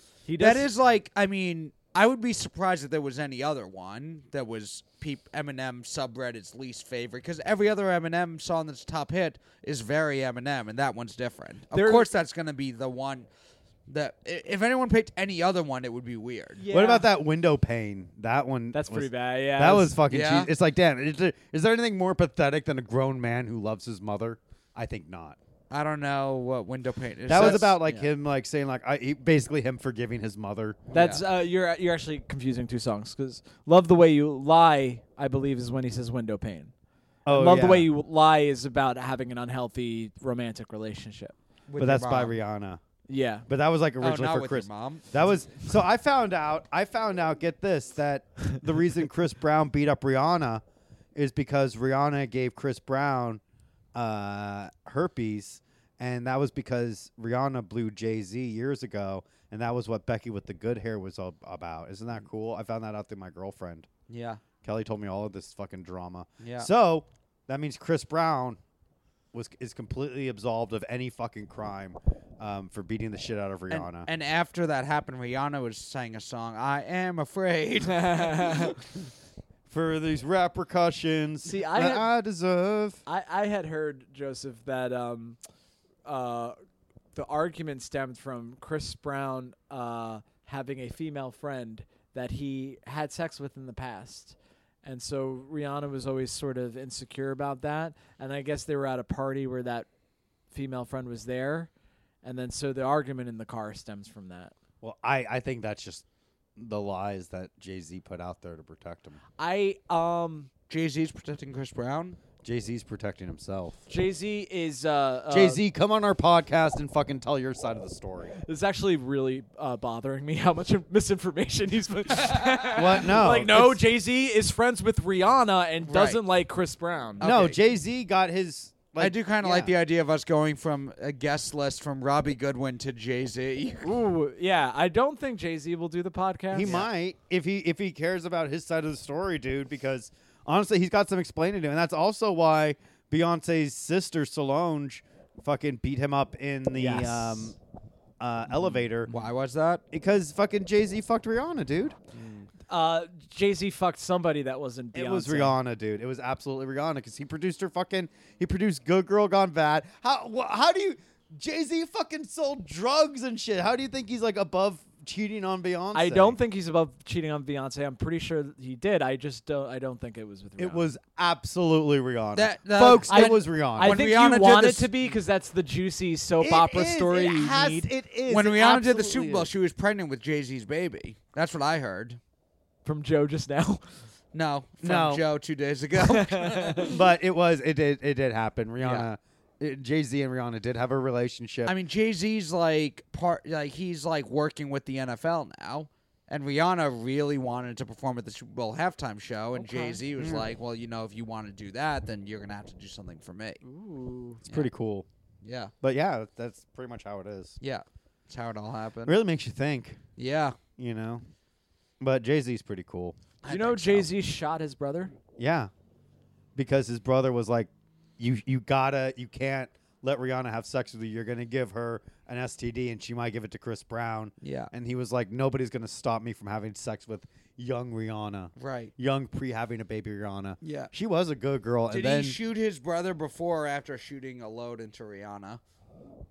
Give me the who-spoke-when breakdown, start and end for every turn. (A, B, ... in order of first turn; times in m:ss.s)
0:00.2-0:00.7 A
0:00.4-0:13.3 B
0:11.7-0:12.1 A
0:13.9-0:16.6 B
0:16.6-0:17.1 A
0:16.7-0:25.4 C
0:18.7-0:20.0 A
0:20.1-0:20.5 B
0:25.7-0:27.8 B
0:27.3-0:30.8 C
0:27.3-0:27.9 A
0:30.9-0:31.2 B
0:30.9-0:36.7 A
0:37.2-0:37.9 C
0:37.3-0:41.3 A
0:41.7-0:42.3 B
0:41.8-0:42.8 C
0:43.1-0:43.4 A
0:43.5-0:50.6 C
0:44.0-0:45.0 B
0:51.1-0:53.4 C
0:53.9-1:03.9 C
1:04.1-1:04.4 B
1:04.6-1:08.6 C
1:06.4-1:06.7 B
1:09.3-1:14.1 C
1:13.7-1:18.8 B
1:17.9-1:18.7 A
1:19.7-1:23.0 C
1:21.4-1:22.1 A
1:23.0-1:25.4 A
1:26.0-1:26.6 A
1:27.1-1:39.9 A
1:40.5-1:41.7 A
1:42.2-1:44.5 A
1:44.8-1:46.0 C
1:46.6-1:49.2 C
1:49.4-1:50.5 A
1:50.7-1:52.2 B
1:52.4-1:53.8 C
1:53.9-1:55.6 A
1:55.3-1:58.3 C
1:58.4-2:07.4 A
2:02.2-2:03.0 B
2:02.7-2:03.8 C
2:05.9-2:06.2 B
2:07.2-2:07.6 B
2:07.2-2:09.7 C
2:09.0-2:13.9 B
2:13.8-2:16.8 A
2:16.5-2:27.6 C
2:16.6-2:16.9 B
2:26.7-2:27.5 A
2:28.2-2:29.1 C
2:29.1-2:29.8 B
2:29.9-2:32.0 C
2:32.2-2:32.5 B
2:32.7-2:35.6 A
2:34.9-2:46.4 C
2:45.9-2:50.9 A
2:50.6-2:54.0 C
2:52.3-2:54.9 B
2:52.9-2:57.9 A
2:56.4-2:59.5 C
2:58.3-3:02.2 B
3:02.8-3:03.8 A
3:04.3-3:06.9 B
3:04.8-3:05.2 C
3:06.0-3:07.0 A
3:06.8-3:11.7 C
3:08.8-3:09.1 B
3:11.7-3:23.6 B
3:19.6-3:20.0 A
3:20.2-3:20.5 C
3:23.6-3:24.4 A
3:24.4-3:25.0 C
3:25.4-3:25.7 B
3:25.8-3:27.6 C
3:27.6-3:29.2 B
3:29.0-3:30.0 C
3:30.2-3:30.6 B
3:30.8-3:31.2 C
3:32.0-3:33.2 C
3:33.4-3:34.1 B
3:33.4-3:35.1 A
3:35.4-3:35.7 C
3:36.6-3:52.4 C
3:44.4-3:44.7 B
3:48.6-3:48.9 B
3:50.6-3:50.9 B
3:51.9-3:55.6 B